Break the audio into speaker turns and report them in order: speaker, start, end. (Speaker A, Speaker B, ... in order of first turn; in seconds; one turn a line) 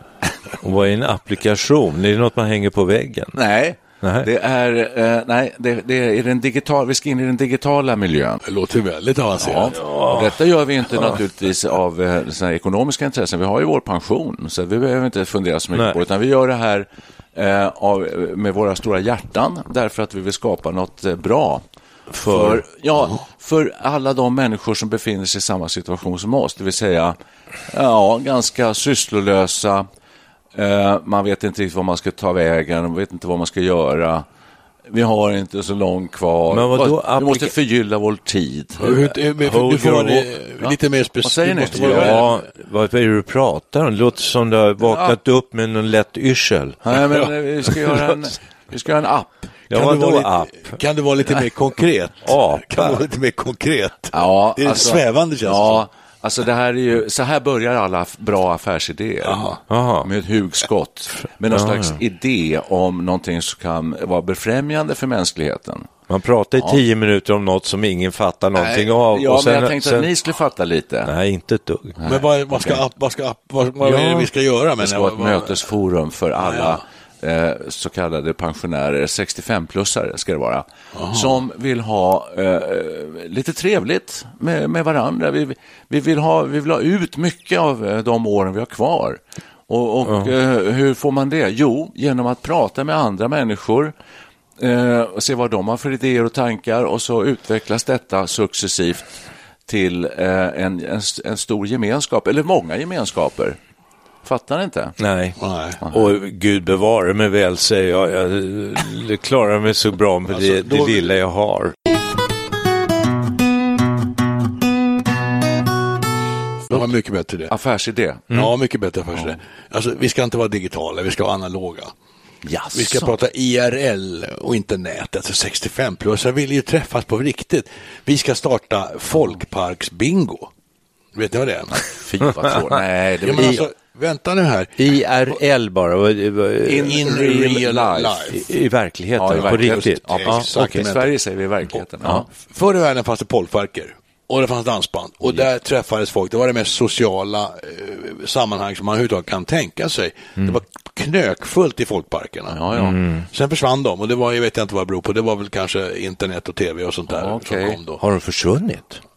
Speaker A: 0.6-3.4
Speaker B: 3.4-8.4
Speaker A: 4.0-4.3
Speaker C: 8.4-9.8
Speaker B: 9.4-21.6
Speaker A: 9.8-10.3
Speaker A: 22.1-22.6
Speaker B: 22.2-27.2
Speaker B: 27.7-29.9
Speaker B: 30.6-34.3
Speaker B: 34.9-39.1
Speaker A: 36.5-37.5
Speaker C: 38.8-42.3
Speaker A: 39.4-40.3
Speaker B: 40.6-42.2
Speaker A: 41.7-47.0
Speaker B: 44.8-45.2
Speaker B: 46.9-49.5
Speaker C: 49.7-55.9
Speaker A: 49.7-50.8
Speaker A: 52.2-53.0
Speaker B: 54.1-59.5
Speaker C: 59.2-59.6
Speaker A: 59.7-60.1
Speaker B: 60.0-65.9
Speaker A: 61.5-62.0
Speaker A: 66.1-70.1
Speaker B: 68.6-71.1
Speaker A: 71.1-72.0
Speaker B: 72.0-72.8
Speaker C: 72.0-75.6
Speaker A: 73.8-74.3
Speaker B: 74.8-93.9
Speaker C: 76.4-76.8
Speaker C: 80.9-81.4
Speaker B: 94.6-103.6
Speaker B: 104.2-105.0
Speaker A: 105.0-105.4
Speaker C: 105.4-105.8
Speaker A: 105.9-111.8
Speaker C: 110.3-111.1
Speaker C: 116.7-117.5
Speaker B: 117.5-118.2
Speaker C: 118.3-121.9
Speaker B: 122.4-123.1
Speaker C: 122.7-130.5
Speaker C: 131.1-131.8
Speaker B: 131.7-133.7
Speaker C: 133.2-134.8
Speaker A: 133.4-133.6
Speaker A: 134.8-137.0
Speaker B: 136.7-138.4
Speaker C: 136.8-138.4
Speaker A: 138.3-140.8
Speaker B: 139.2-142.3
Speaker C: 139.3-141.1
Speaker C: 142.3-152.6
Speaker B: 152.5-153.0
Speaker A: 152.8-153.2
Speaker C: 153.3-158.0
Speaker B: 157.1-157.8
Speaker A: 158.0-159.0